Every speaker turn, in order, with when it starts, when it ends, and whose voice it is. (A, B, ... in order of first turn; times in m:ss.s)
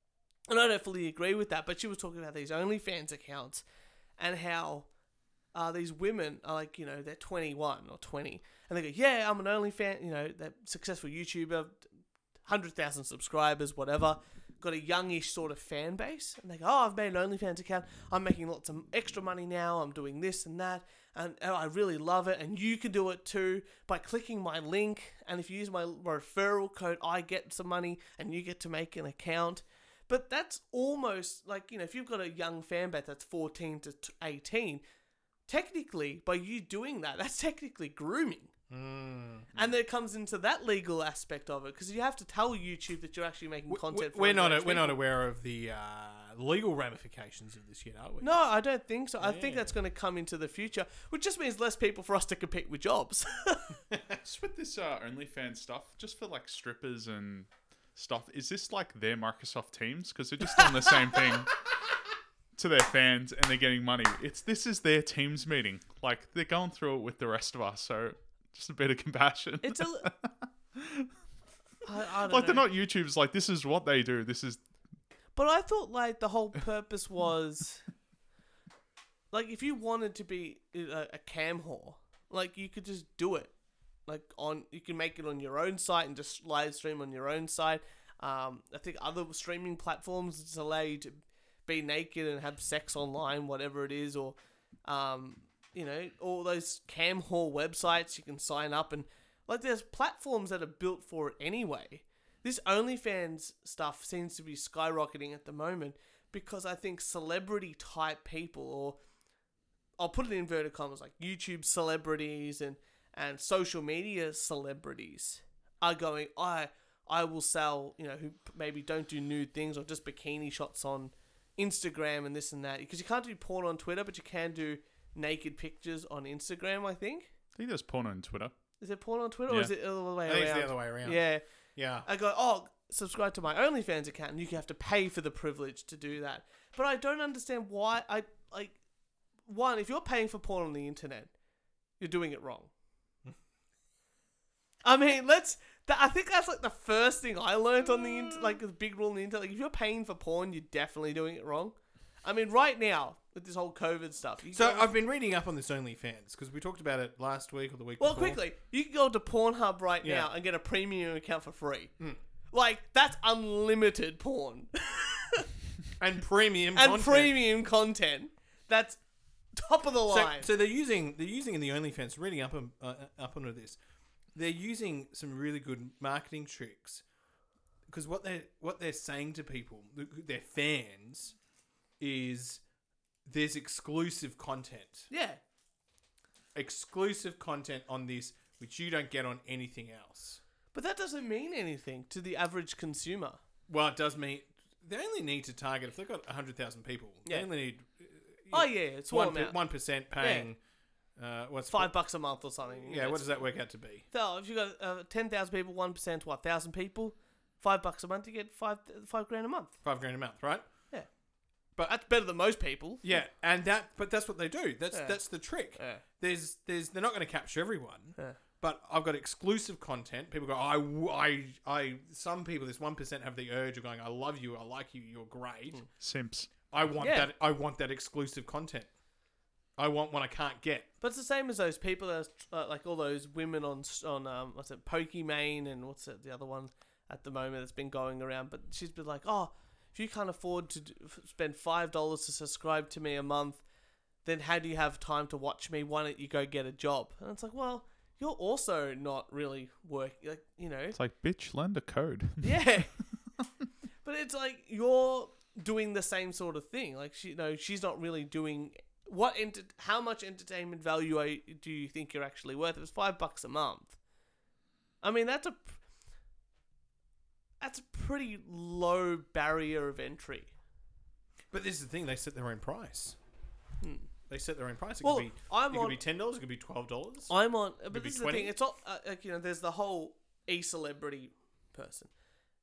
0:00.5-0:03.6 A
0:04.2-0:04.9 A
0:05.5-0:11.9 A
0:12.4-0:34.8 A
0:35.5-0:38.5 A
0:38.7-0:39.5 B
0:39.6-0:45.0 A
0:43.7-0:48.3 B
0:48.2-0:53.7 A
0:49.2-0:49.7 B
0:53.9-0:54.2 B
0:54.2-1:01.5 C
1:02.6-1:11.1 C
1:09.6-1:10.1 A
1:11.8-1:12.7 A
1:12.3-1:14.6 C
1:15.4-1:17.8 A
1:19.3-1:23.5 A
1:24.1-1:49.0 A
1:50.0-2:07.3 A
2:07.6-2:08.5 C
2:08.8-2:11.4 A
2:10.2-2:11.2 B
2:11.8-2:12.1 B
2:12.0-2:18.8 A
2:19.5-2:21.3 A
2:22.0-2:22.7 A
2:24.8-2:34.9 A
2:34.5-2:38.4 B
2:38.0-2:41.9 A
2:40.0-2:40.3 B
2:42.5-2:45.5 A
2:46.0-2:47.4 B
2:46.8-2:49.0 A
2:49.5-2:50.5 A
2:50.1-2:53.8 B
2:54.4-2:57.0 B
2:57.9-3:01.4 B
3:02.0-3:02.6 B
3:03.3-3:05.1 B
3:05.1-3:05.4 A
3:06.6-3:10.4 B
3:10.7-3:13.4 A
3:13.7-3:20.6 B
3:18.5-3:19.6 A
3:20.2-3:20.5 A
3:21.2-3:21.9 B
3:21.7-3:23.4 A
3:22.8-3:24.0 B
3:24.1-3:29.8 A
3:29.8-3:30.7 B
3:31.8-3:33.0 A
3:33.0-3:45.8 B
3:34.9-3:35.2 A
3:35.8-3:36.0 A
3:46.0-3:46.5 C
3:46.7-3:48.9 B
3:47.0-3:47.3 A
3:49.8-3:50.9 B
3:51.0-4:03.6 A
4:04.2-4:11.0 A
4:10.9-4:12.5 C
4:12.4-4:12.9 A
4:14.0-4:24.0 A
4:25.0-4:25.8 A
4:27.6-4:30.5 A
4:31.5-4:33.2 B
4:33.8-4:34.1 A
4:34.3-4:37.3 B
4:35.0-4:36.0 A
4:37.3-4:42.1 A
4:37.9-4:38.6 B